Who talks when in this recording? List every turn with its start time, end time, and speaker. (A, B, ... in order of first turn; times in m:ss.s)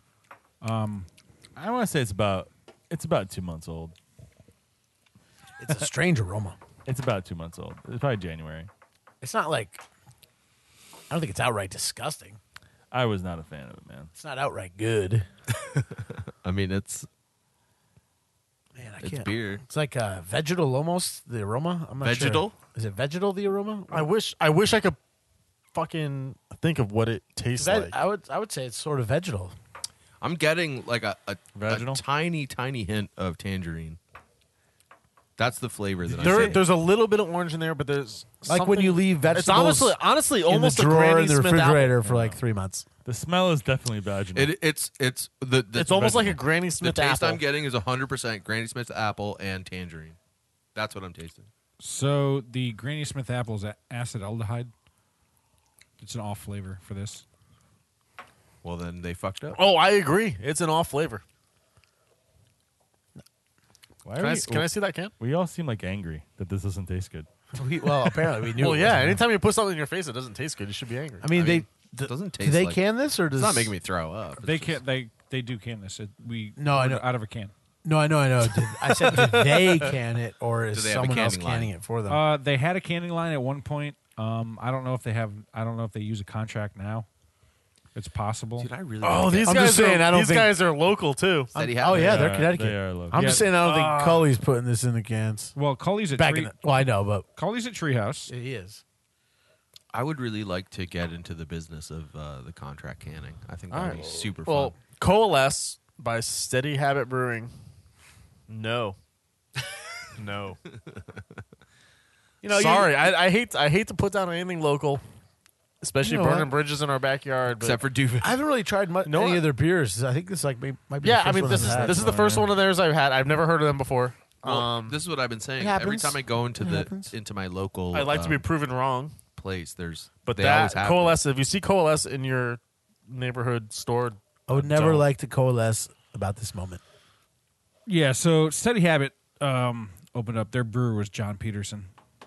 0:00.6-0:01.1 A
0:01.6-0:03.9 B
0:05.6-0:06.6 C
0:06.8-0:08.7 B
0:09.2-0:09.8 C
0:11.1-0:12.4 C
0:12.9-0:14.1 B
0:14.1-0:15.3 C
0:16.4-0:17.1 D
0:18.8-0:24.1 C
0:19.0-0:19.6 D
0:22.0-0:22.5 D
0:23.9-0:25.0 E
0:25.7-0:28.0 E
0:27.6-0:29.5 C
0:30.2-0:34.0 D
0:31.5-0:32.0 B
0:35.4-0:36.6 D
0:36.1-0:42.0 E
0:36.2-0:36.6 B
0:38.5-0:42.9 C
0:42.0-0:42.4 B
0:43.0-0:44.5 B
0:44.3-0:50.2 D
0:45.7-0:47.4 E
0:46.0-0:46.3 B
0:50.7-0:51.5 D
0:51.8-0:54.7 A
0:56.0-0:57.2 A
0:58.6-0:59.6 D
0:59.5-1:01.2 E
1:04.0-1:07.3 B
1:04.2-1:05.1 E
1:07.5-1:09.2 C
1:08.6-1:11.3 E
1:11.2-1:13.7 C
1:11.3-1:14.8 D
1:14.4-1:17.5 A
1:16.6-1:17.0 C
1:17.8-1:22.2 C
1:18.8-1:19.9 E
1:20.7-1:21.7 D
1:22.1-1:27.1 A
1:27.9-1:28.7 A
1:28.6-1:29.8 D
1:29.0-1:31.5 E
1:29.4-1:30.5 C
1:31.5-1:35.5 C
1:31.5-1:32.3 D
1:31.9-1:33.4 B
1:33.2-1:33.6 A
1:33.2-1:34.3 E
1:35.5-1:38.3 A
1:36.2-1:37.2 C
1:38.3-1:38.8 C
1:39.9-1:44.8 D
1:43.7-1:47.5 E
1:48.5-1:49.0 E
1:50.2-1:50.6 E
1:52.4-1:55.0 E
1:52.4-1:53.0 C
1:55.8-1:57.8 E
1:56.0-1:56.5 C
1:57.5-1:58.3 D
1:58.2-2:02.1 C
1:59.0-1:59.4 E
2:01.0-2:05.0 E
2:01.5-2:02.5 B
2:04.4-2:08.4 D
2:05.6-2:07.1 C
2:07.9-2:09.2 E
2:09.4-2:11.2 D
2:10.2-2:15.0 E
2:14.5-2:16.8 C
2:17.8-2:21.9 A